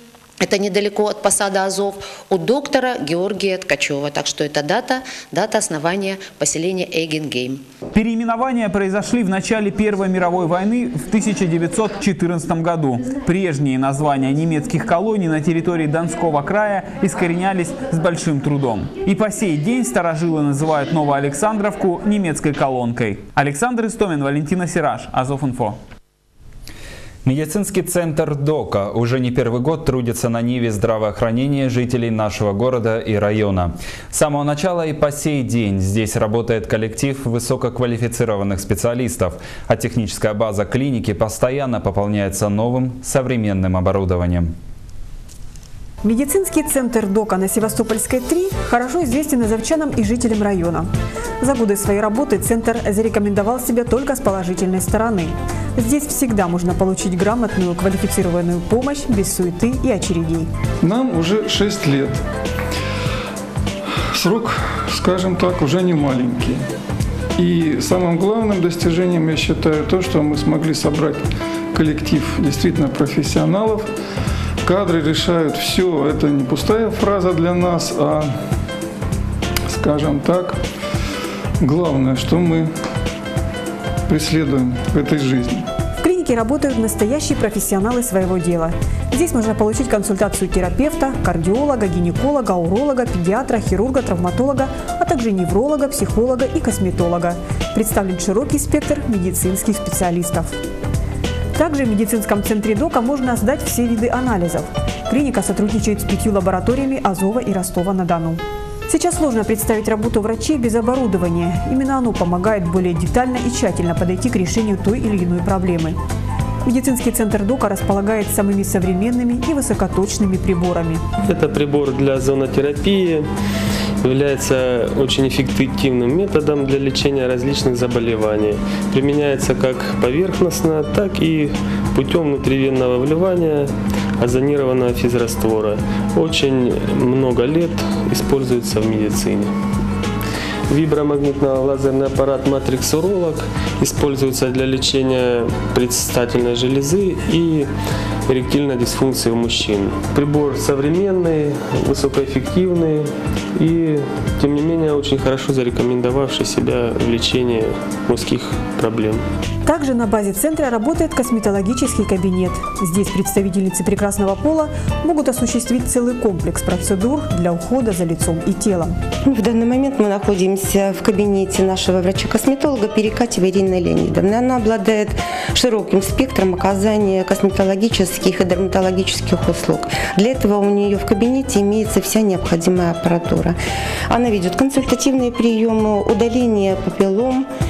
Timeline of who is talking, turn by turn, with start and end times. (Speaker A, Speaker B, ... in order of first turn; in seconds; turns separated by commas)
Speaker A: 0.4-7.6, Speaker B: 7.9-25.8, Speaker C: 27.2-44.5, Speaker D: 46.0-60.5, Speaker E: 60.8-62.2, Speaker E: 64.2-66.6, Speaker E: 67.4-73.9, Speaker E: 74.6-78.3, Speaker E: 79.7-80.6, Speaker E: 81.6-82.7, Speaker E: 84.1-85.7, Speaker D: 86.0-100.5, Speaker D: 101.5-116.0, Speaker D: 116.7-121.0, Speaker F: 121.2-123.3, Speaker F: 124.0-139.5, Speaker F: 140.7-147.7, Speaker F: 148.3-159.2, Speaker D: 159.7-169.0, Speaker G: 169.3-183.6, Speaker G: 184.1-187.5